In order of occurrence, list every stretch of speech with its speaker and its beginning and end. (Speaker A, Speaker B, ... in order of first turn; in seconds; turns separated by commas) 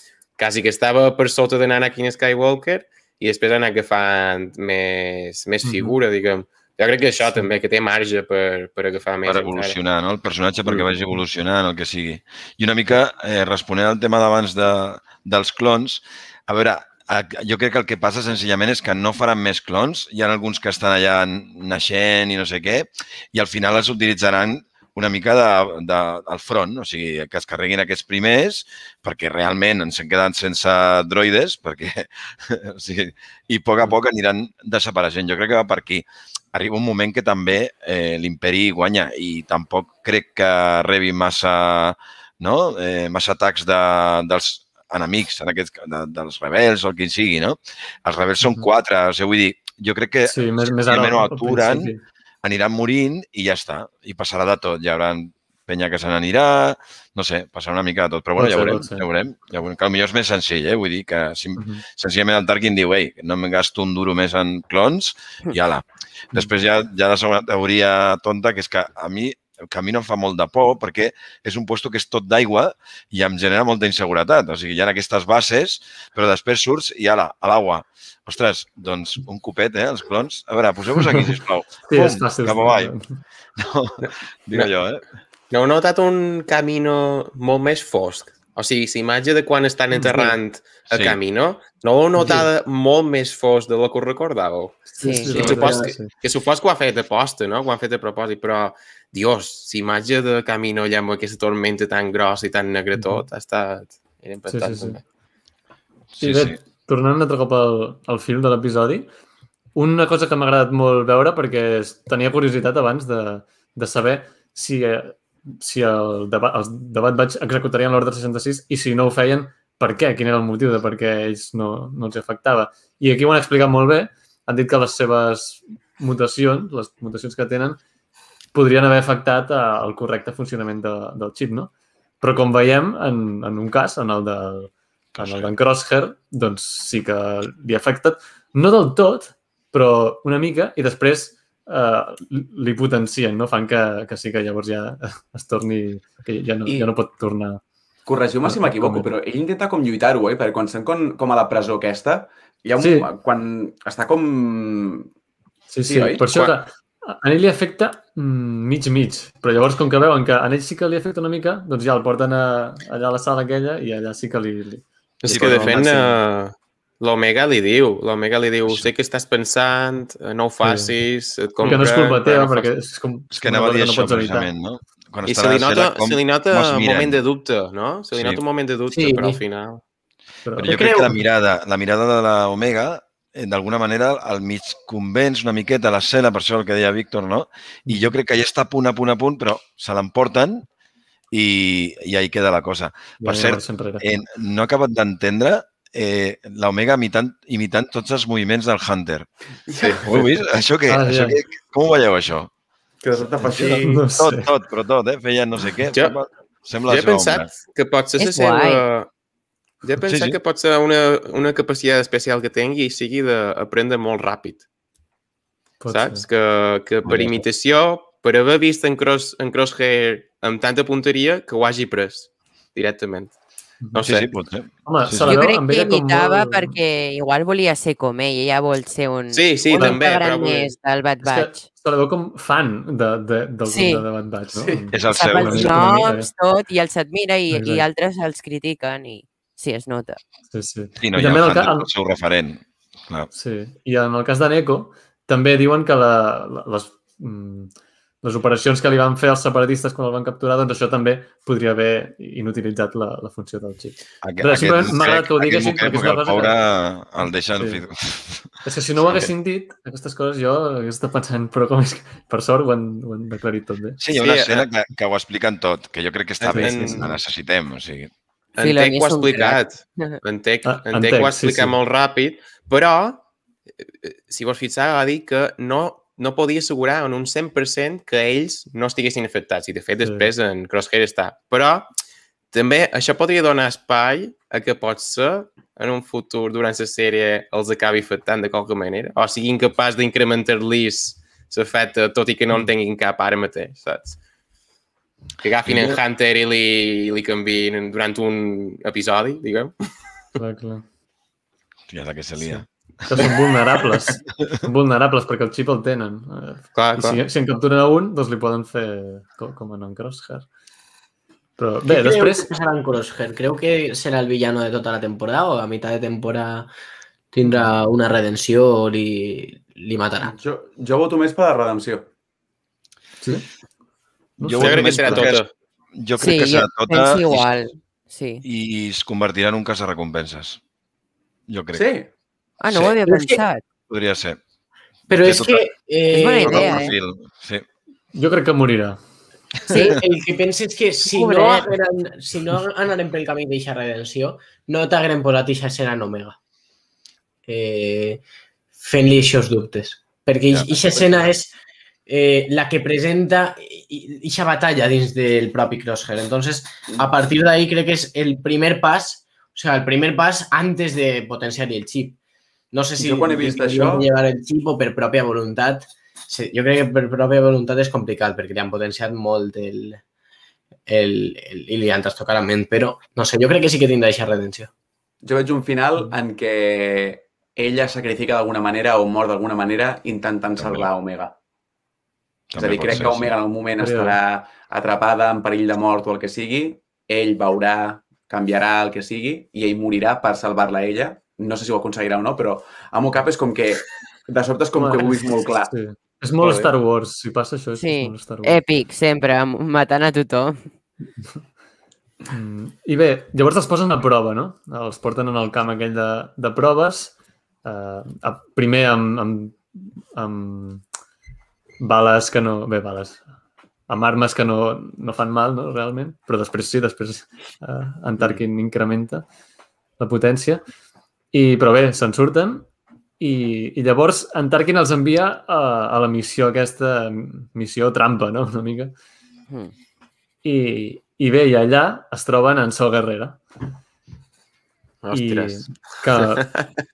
Speaker A: 0.4-9.8, Speaker B: 5.6-6.0, Speaker C: 9.2-51.9, Speaker B: 50.3-52.0, Speaker C: 52.4-82.9, Speaker B: 58.4-59.1, Speaker B: 61.6-61.8, Speaker B: 81.9-83.2, Speaker C: 83.6-85.0, Speaker A: 85.5-105.0, Speaker B: 89.9-90.4, Speaker C: 90.9-91.2, Speaker B: 92.2-92.5, Speaker D: 95.0-95.6, Speaker B: 95.0-96.1, Speaker E: 95.4-95.9, Speaker B: 103.0-103.2, Speaker B: 104.5-105.0, Speaker C: 106.1-106.6, Speaker B: 106.2-109.1, Speaker B: 109.8-127.8, Speaker B: 128.5-131.7, Speaker B: 132.2-147.6, Speaker C: 135.2-135.5, Speaker F: 148.1-155.1, Speaker B: 148.4-149.1, Speaker B: 152.8-153.1, Speaker B: 155.7-166.1, Speaker F: 155.8-156.3, Speaker A: 165.2-172.7, Speaker C: 165.3-166.1, Speaker C: 168.7-168.9, Speaker B: 170.6-170.9, Speaker B: 171.6-174.5, Speaker C: 173.3-177.2, Speaker A: 175.3-179.8, Speaker C: 178.1-178.4, Speaker E: 178.9-179.4, Speaker B: 180.5-181.2, Speaker C: 180.6-190.7, Speaker E: 180.6-181.1, Speaker B: 187.9-188.1, Speaker C: 191.3-202.5, Speaker B: 193.2-194.1, Speaker F: 199.7-200.1, Speaker B: 200.9-201.4, Speaker F: 203.0-204.1, Speaker B: 203.4-204.5, Speaker C: 204.2-207.5, Speaker A: 206.9-209.1, Speaker D: 208.2-208.8, Speaker A: 209.8-214.6, Speaker C: 210.0-210.4, Speaker B: 215.8-216.2, Speaker A: 215.9-223.3, Speaker C: 217.1-217.4, Speaker A: 223.9-224.3, Speaker C: 224.0-225.3, Speaker B: 224.9-226.8, Speaker D: 225.2-231.7, Speaker A: 229.3-230.8, Speaker B: 231.2-236.3, Speaker D: 233.7-234.1, Speaker F: 234.5-235.0, Speaker C: 234.9-235.9, Speaker D: 235.1-240.2, Speaker B: 237.5-237.9, Speaker B: 240.5-241.9, Speaker C: 241.0-243.3, Speaker B: 243.3-256.6, Speaker C: 254.2-258.5, Speaker B: 257.6-257.8, Speaker B: 258.6-264.0, Speaker C: 264.0-268.1, Speaker A: 264.1-264.7, Speaker B: 266.4-267.0, Speaker A: 266.4-267.2, Speaker A: 268.6-273.2, Speaker D: 268.6-270.2, Speaker B: 270.6-271.8, Speaker A: 274.0-281.9, Speaker B: 280.0-280.3, Speaker A: 282.5-294.2, Speaker A: 295.4-299.7, Speaker C: 295.7-296.0, Speaker B: 300.4-300.9, Speaker C: 301.9-303.4, Speaker B: 302.4-310.5, Speaker A: 306.8-307.2, Speaker B: 311.6-312.5, Speaker E: 311.9-316.7, Speaker E: 317.3-320.3, Speaker B: 317.4-317.7, Speaker F: 320.2-322.1, Speaker B: 324.4-325.3, Speaker C: 324.4-327.6, Speaker A: 324.6-325.5, Speaker D: 326.2-328.4, Speaker C: 328.4-330.6, Speaker C: 331.5-331.9, Speaker F: 331.7-332.1, Speaker D: 332.6-333.6, Speaker C: 332.7-333.0, Speaker E: 333.1-333.4, Speaker C: 333.9-334.4, Speaker E: 335.1-336.9, Speaker C: 335.1-335.7, Speaker D: 336.1-337.0, Speaker C: 336.4-337.7, Speaker B: 338.1-339.0, Speaker E: 339.7-346.4, Speaker D: 339.7-340.0, Speaker D: 341.1-341.7, Speaker E: 347.5-348.2, Speaker E: 348.8-351.5, Speaker C: 350.5-351.0, Speaker E: 352.1-362.2, Speaker E: 362.7-370.0, Speaker F: 363.0-364.1, Speaker E: 370.9-374.7, Speaker F: 375.2-381.4, Speaker C: 380.6-380.9, Speaker C: 382.5-383.4, Speaker F: 382.6-395.7, Speaker B: 383.8-384.2, Speaker B: 394.8-398.6, Speaker A: 396.4-396.7, Speaker D: 397.8-400.6, Speaker B: 402.3-407.1, Speaker B: 407.6-410.8, Speaker B: 411.8-413.2, Speaker B: 413.9-419.2, Speaker B: 420.0-420.6, Speaker B: 421.3-422.7, Speaker B: 423.2-428.9, Speaker B: 430.4-433.4, Speaker A: 435.0-436.6, Speaker B: 435.1-436.5